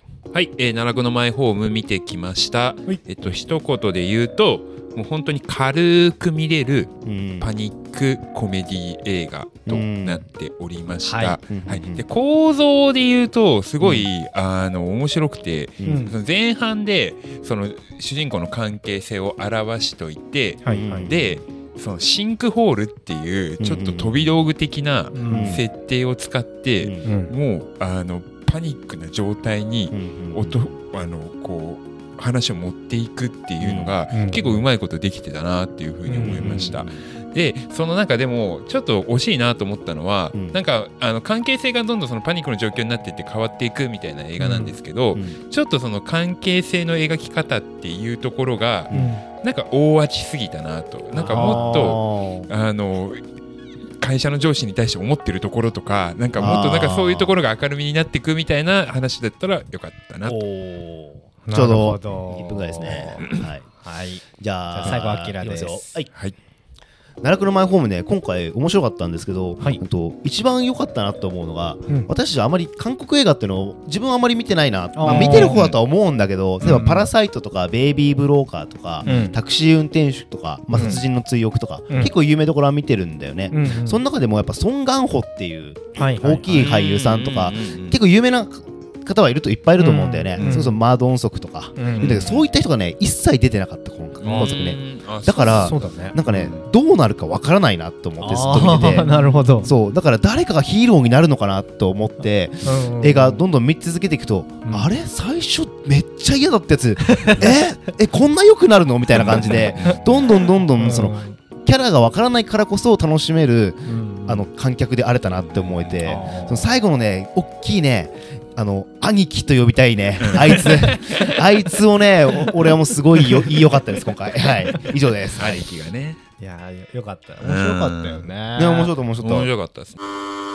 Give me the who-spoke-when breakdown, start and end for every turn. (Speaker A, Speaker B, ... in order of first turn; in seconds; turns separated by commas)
Speaker A: 0.3-53.2, Speaker B: 7.0-7.5, Speaker B: 9.7-10.2, Speaker C: 11.0-11.4, Speaker B: 11.5-12.0, Speaker B: 13.8-14.1, Speaker B: 15.8-16.1, Speaker C: 15.8-16.1, Speaker C: 20.6-21.1, Speaker B: 20.7-21.4, Speaker B: 23.6-24.2, Speaker C: 25.1-25.6, Speaker B: 25.3-25.6, Speaker B: 26.8-27.1, Speaker C: 27.0-27.3, Speaker B: 29.9-30.7, Speaker B: 33.6-34.0, Speaker C: 34.1-34.6, Speaker C: 36.0-36.5, Speaker B: 36.2-36.9, Speaker C: 44.4-44.7, Speaker C: 48.9-49.2, Speaker B: 51.1-52.5, Speaker C: 51.3-51.9, Speaker A: 54.0-60.4, Speaker B: 56.4-57.3, Speaker B: 60.2-63.6, Speaker C: 61.5-63.2, Speaker C: 63.8-65.9, Speaker B: 64.4-66.1, Speaker B: 67.2-99.1, Speaker C: 74.9-75.6, Speaker A: 75.0-75.8, Speaker C: 76.6-77.1, Speaker A: 79.0-79.3, Speaker C: 79.0-79.4, Speaker C: 80.7-81.0, Speaker C: 83.5-84.0, Speaker C: 86.0-86.4, Speaker A: 86.4-88.0, Speaker C: 89.8-90.8, Speaker A: 90.3-90.7, Speaker C: 91.8-92.5, Speaker A: 92.0-92.3, Speaker A: 94.2-96.6, Speaker C: 95.4-96.2, Speaker C: 98.2-99.7, Speaker A: 98.8-99.6, Speaker B: 99.6-125.6, Speaker C: 102.6-103.4, Speaker C: 107.0-107.6, Speaker A: 109.1-110.2, Speaker C: 110.7-111.4, Speaker C: 113.8-114.5, Speaker A: 115.3-116.1, Speaker C: 116.0-116.7, Speaker A: 120.2-121.4, Speaker A: 125.3-126.2, Speaker C: 126.4-128.9, Speaker A: 127.4-128.3, Speaker B: 128.6-129.5, Speaker A: 129.2-130.0